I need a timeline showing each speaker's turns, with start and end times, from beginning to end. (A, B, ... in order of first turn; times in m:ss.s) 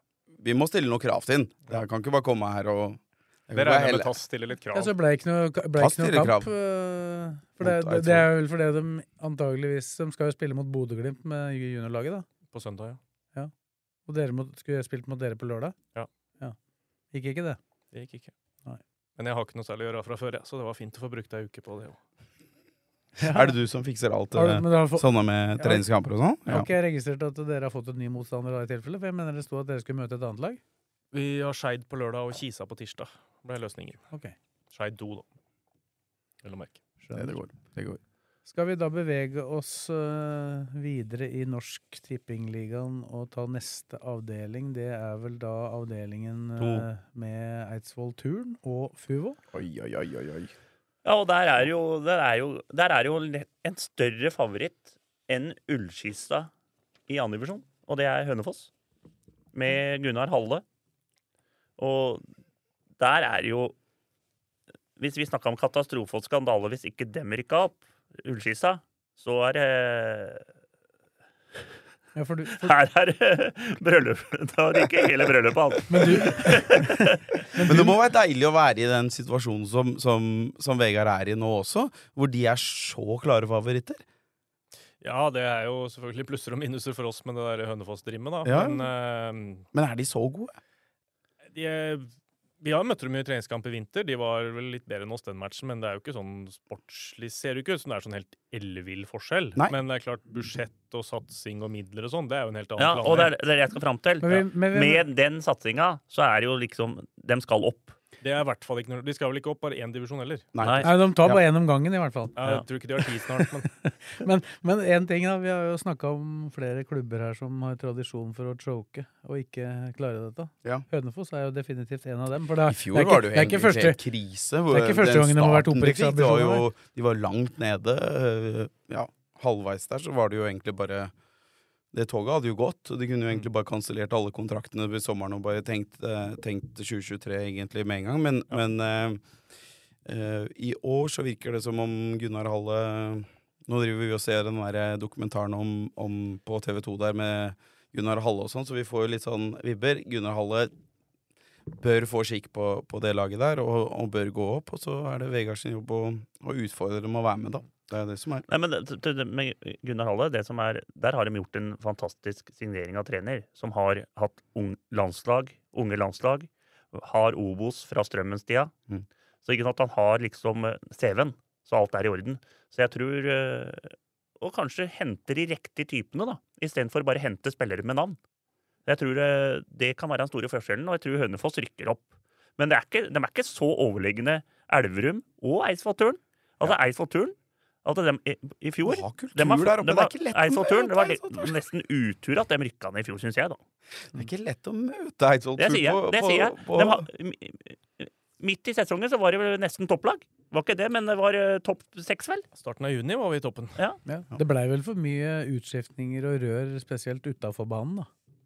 0:00.4-0:04.1 A
0:03.5-0:04.9 B
0:04.7-0:12.2 C
0:05.8-0:06.5 A
0:07.6-0:08.3 A
0:12.5-0:13.0 B
0:14.0-0:15.7 C
0:17.1-0:17.6 C
0:17.9-0:18.3 B
0:19.2-0:22.0 B
0:23.2-0:23.5 C
0:23.2-0:26.7 A
0:24.3-0:25.8 C
0:26.5-0:30.6 C
0:31.1-0:34.0 B
0:34.7-0:35.2 B
0:36.4-0:36.8 B
0:37.0-0:37.4 C
0:37.1-0:38.0 A
0:38.4-0:49.4 C
0:46.6-0:46.9 A
0:49.5-0:50.5 A
0:51.0-0:56.5 D
0:57.1-0:58.7 D
0:59.5-1:00.6 D
1:01.8-1:02.2 D
1:03.0-1:03.7 D
1:05.0-1:10.4 D
1:12.2-1:12.7 C
1:12.5-1:17.3 D
1:15.9-1:17.0 C
1:17.5-1:18.0 C
1:17.6-1:24.0 A
1:25.0-1:29.7 B
1:28.4-1:28.9 A
1:29.7-1:30.6 A
1:31.5-1:32.1 B
1:32.6-1:43.3 B
1:42.8-1:48.0 D
1:44.2-1:45.0 C
1:48.2-1:50.5 B
1:50.5-1:51.4 A
1:50.6-1:50.9 D
1:50.8-1:52.4 C
1:52.4-1:53.7 B
1:53.8-2:04.0 C
2:02.7-2:11.1 A
2:04.7-2:06.7 C
2:11.9-2:19.2 A
2:20.0-2:30.7 A
2:31.7-2:38.4 A
2:38.5-2:48.7 D
2:49.4-2:58.2 D
2:58.9-3:02.1 D
3:02.6-3:13.6 D
3:08.8-3:11.6 A
3:14.1-3:17.1 A
3:15.6-3:22.4 D
3:22.6-3:23.8 B
3:24.1-3:28.1 C